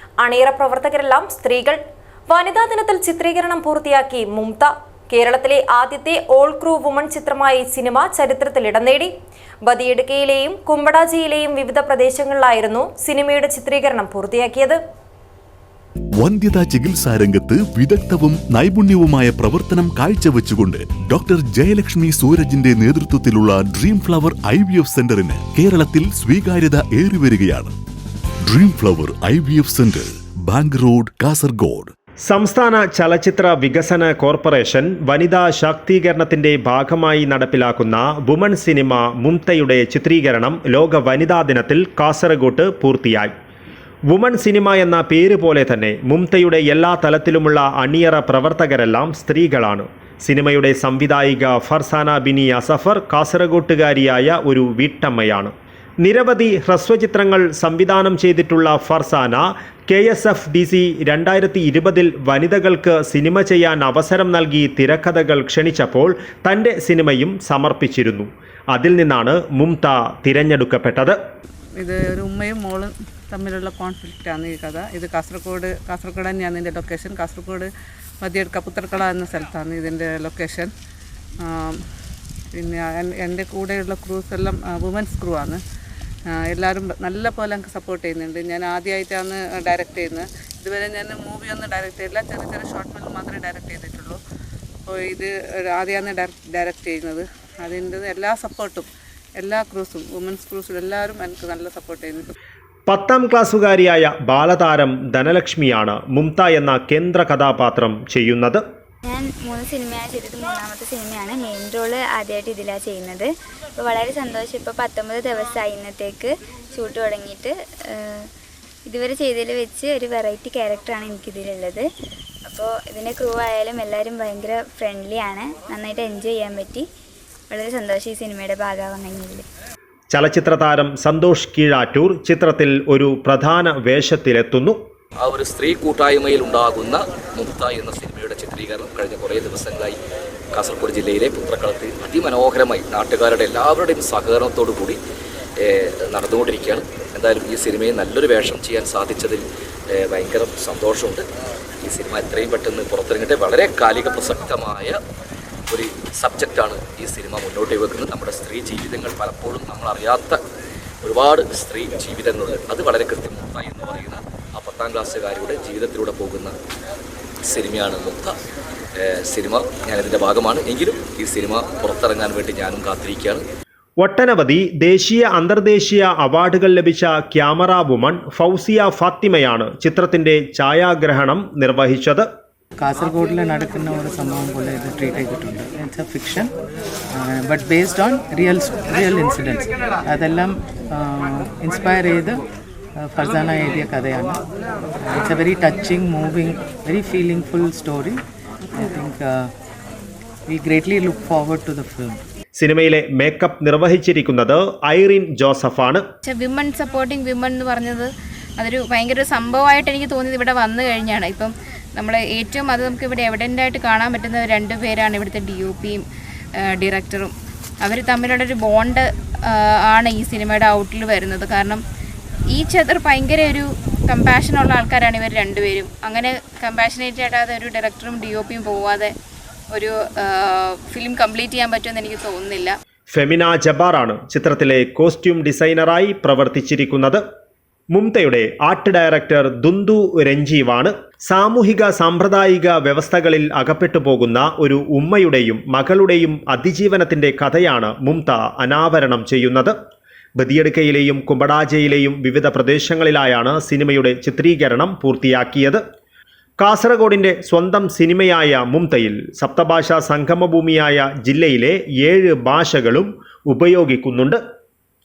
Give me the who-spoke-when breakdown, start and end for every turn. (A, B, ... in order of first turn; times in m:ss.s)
0:00.2-0:09.1 A
0:09.6-0:14.8 A
0:16.2-0:27.7 B
0:28.4-0:31.9 B
0:32.2-0:43.3 C
0:44.1-1:11.2 C
1:11.8-1:17.7 D
1:18.2-1:20.7 D
1:21.4-1:21.8 D
1:22.5-1:25.6 D
1:26.5-1:34.2 D
1:34.9-1:38.9 D
1:39.4-1:42.3 D
1:42.9-1:48.6 C
1:49.0-1:58.3 E
1:58.8-2:01.8 E
2:02.5-2:06.8 E
2:07.5-2:09.4 E
2:10.1-2:14.8 C
2:15.2-2:20.0 F
2:20.5-2:25.0 F
2:25.6-2:31.2 F
2:31.8-2:35.0 F
2:35.7-2:40.4 F
2:41.0-2:46.5 F
2:47.4-2:48.4 F
2:49.0-2:53.4 F
2:54.0-3:02.2 C
3:02.8-3:06.5 G
3:07.1-3:12.4 G
3:13.0-3:14.4 G
3:15.0-3:18.2 G
3:18.7-3:19.5 G
3:20.5-3:22.2 G
3:22.5-3:26.0 C
3:26.2-3:36.0 H
3:36.7-3:41.8 H
3:42.5-3:49.1 H
3:49.7-3:52.8 H
3:53.1-3:57.2 C
3:57.9-4:09.7 C
4:10.4-4:15.8 C
4:16.6-4:24.4 C